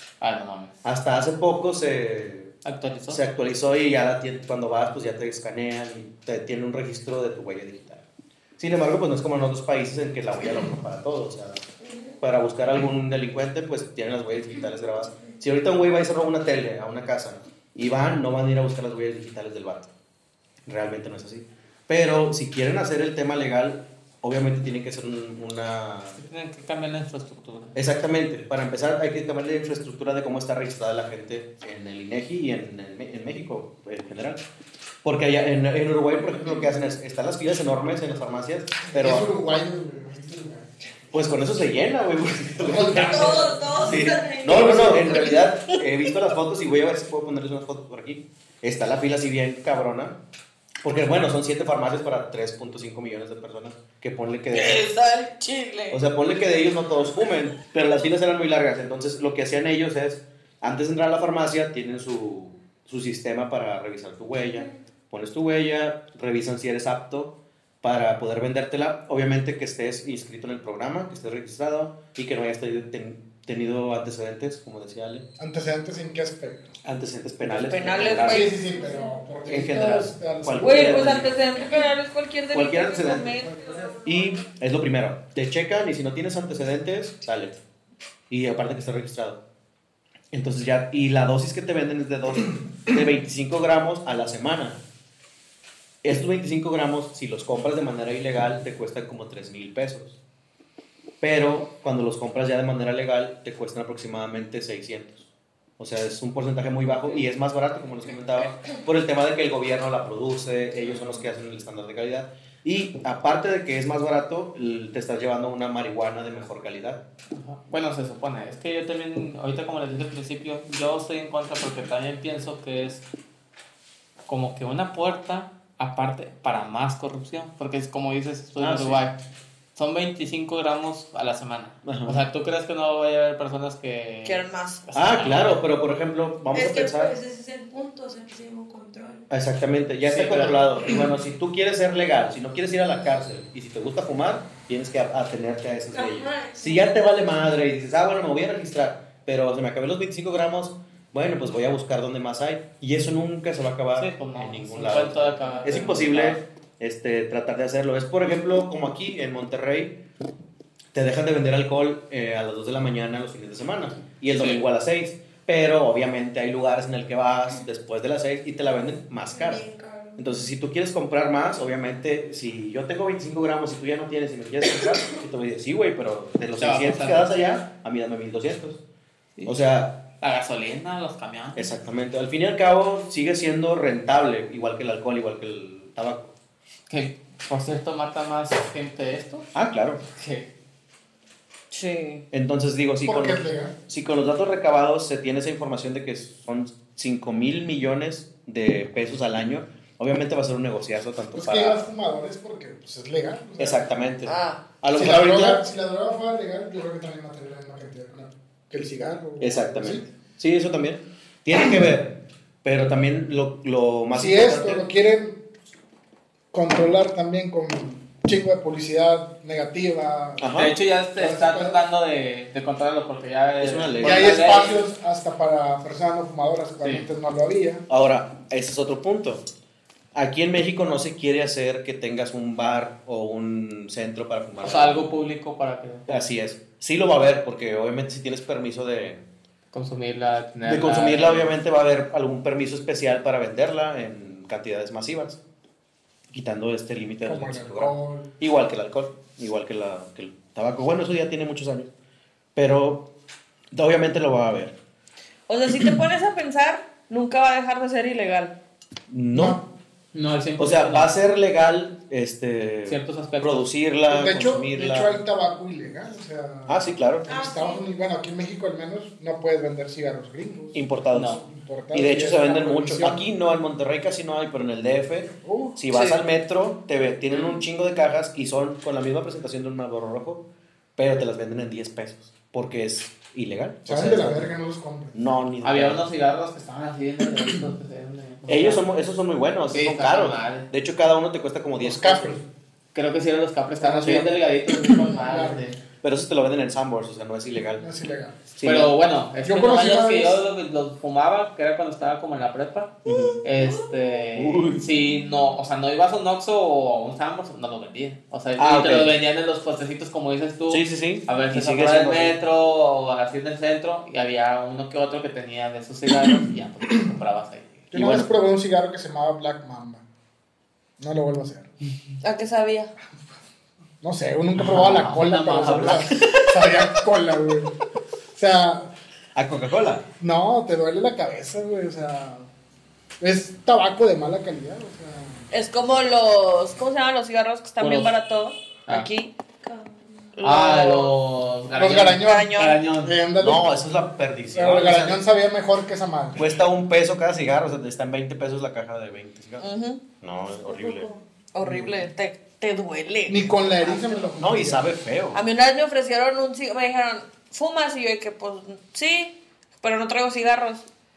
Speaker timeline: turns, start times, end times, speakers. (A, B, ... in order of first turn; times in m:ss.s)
0:00.2-0:00.8 A
0:00.8-0:02.5 B
0:02.6-0:03.2 A
0:03.1-0:08.0 B
0:08.6-0:11.6 B
0:12.2-0:19.9 B
0:20.7-0:26.2 B
0:26.2-0:27.8 A
0:27.8-0:34.4 B
0:35.0-0:39.3 B
0:38.8-0:40.7 C
0:41.1-0:50.2 B
0:42.6-0:45.4 C
0:42.9-0:44.9 D
0:44.8-0:45.8 E
0:50.8-0:54.8 B
0:54.5-0:56.0 E
0:55.9-1:15.3 B
1:15.4-1:16.7 C
1:16.8-1:18.5 B
1:17.4-1:18.6 E
1:18.0-1:21.3 C
1:18.6-1:19.0 D
1:19.5-1:21.4 B
1:19.7-1:23.8 E
1:22.5-1:27.6 B
1:28.3-1:29.4 B
1:30.3-1:34.8 B
1:36.0-1:40.2 B
1:41.2-1:45.3 B
1:45.8-1:57.0 B
1:57.3-2:03.0 A
2:04.3-2:09.2 A
2:08.6-2:09.0 B
2:09.8-2:15.6 A
2:11.8-2:12.2 B
2:14.2-2:14.8 E
2:14.9-2:17.2 B
2:16.5-2:19.2 D
2:19.3-2:40.0 B
2:20.0-2:20.8 A
2:25.9-2:26.9 D
2:34.0-2:36.4 A
2:35.4-2:35.9 D
2:40.9-2:58.8 B
2:44.4-2:44.6 A
2:49.4-2:50.3 D
2:56.6-2:57.3 A
2:59.4-3:00.0 B
3:00.2-3:01.7 A
3:01.6-3:06.3 B
3:06.9-3:09.5 A
3:09.5-3:10.0 B
3:10.2-3:10.5 A
3:11.7-3:12.3 E
3:12.3-3:21.8 B
3:13.0-3:13.7 C
3:21.4-3:23.9 C
3:23.6-3:25.6 B
3:24.2-3:24.6 E
3:24.9-3:30.0 C
3:29.4-3:34.9 B
3:34.1-3:35.4 C
3:36.5-3:40.6 C
3:40.4-3:40.8 B
3:40.6-3:44.8 A
3:41.2-3:41.8 C
3:43.6-3:44.6 B
3:44.0-3:47.8 C
3:46.8-3:47.1 A
3:47.9-3:49.5 B
3:50.2-3:55.2 B
3:54.6-3:56.1 A
3:56.1-3:59.2 B
3:59.7-4:01.5 A
4:00.6-4:05.4 B
4:06.3-4:11.9 B
4:07.3-4:08.3 C
4:12.6-4:13.1 B
4:13.7-4:14.8 B
4:15.5-4:18.6 E
4:19.1-4:19.6 B
4:19.3-4:19.7 C
4:20.1-4:21.1 A
4:20.6-4:25.2 B
4:22.9-4:23.6 A
4:24.1-4:33.2 C
4:26.7-4:27.3 B
4:27.3-4:27.9 D
4:30.7-4:31.4 B
4:31.1-4:31.4 A
4:31.9-4:40.4 B
4:35.4-4:35.8 C
4:35.9-4:36.2 E
4:41.0-4:44.5 B
4:43.9-4:45.2 C
4:45.2-4:46.0 B
4:45.6-4:48.8 A
4:48.5-4:52.4 B
4:49.7-4:50.7 A
4:51.8-4:52.4 C
4:52.9-4:55.8 A
4:53.9-4:54.3 B
4:54.8-4:55.8 C
4:56.0-4:57.8 B
4:57.8-4:58.4 C
4:58.6-4:58.9 B
4:58.6-5:17.9 A
4:59.4-5:00.4 C
5:03.1-5:03.4 B
5:03.6-5:04.2 D
5:04.4-5:04.9 B
5:08.6-5:09.2 B
5:10.7-5:12.4 B
5:17.9-5:20.0 C
5:17.9-5:18.3 B
5:21.0-5:21.7 C
5:22.2-5:22.9 E
5:24.0-5:27.8 C
5:24.6-5:26.3 A
5:24.8-5:25.1 B
5:25.6-5:26.1 B
5:28.4-5:28.9 C
5:29.4-5:30.0 B
5:30.2-5:32.5 C
5:33.2-5:35.5 C
5:35.5-5:39.3 E
5:37.8-5:38.1 A
5:39.6-5:40.3 D
5:40.4-5:41.2 E
5:40.4-5:43.2 A
5:41.7-5:43.7 C
5:42.0-5:42.8 E
5:43.4-5:45.2 B
5:44.5-5:46.5 C
5:46.4-5:49.6 B
5:49.6-5:50.0 E
5:50.2-5:51.1 B
5:51.5-5:54.2 E
5:53.3-5:54.9 C
5:54.4-5:55.4 B
5:55.3-6:00.9 E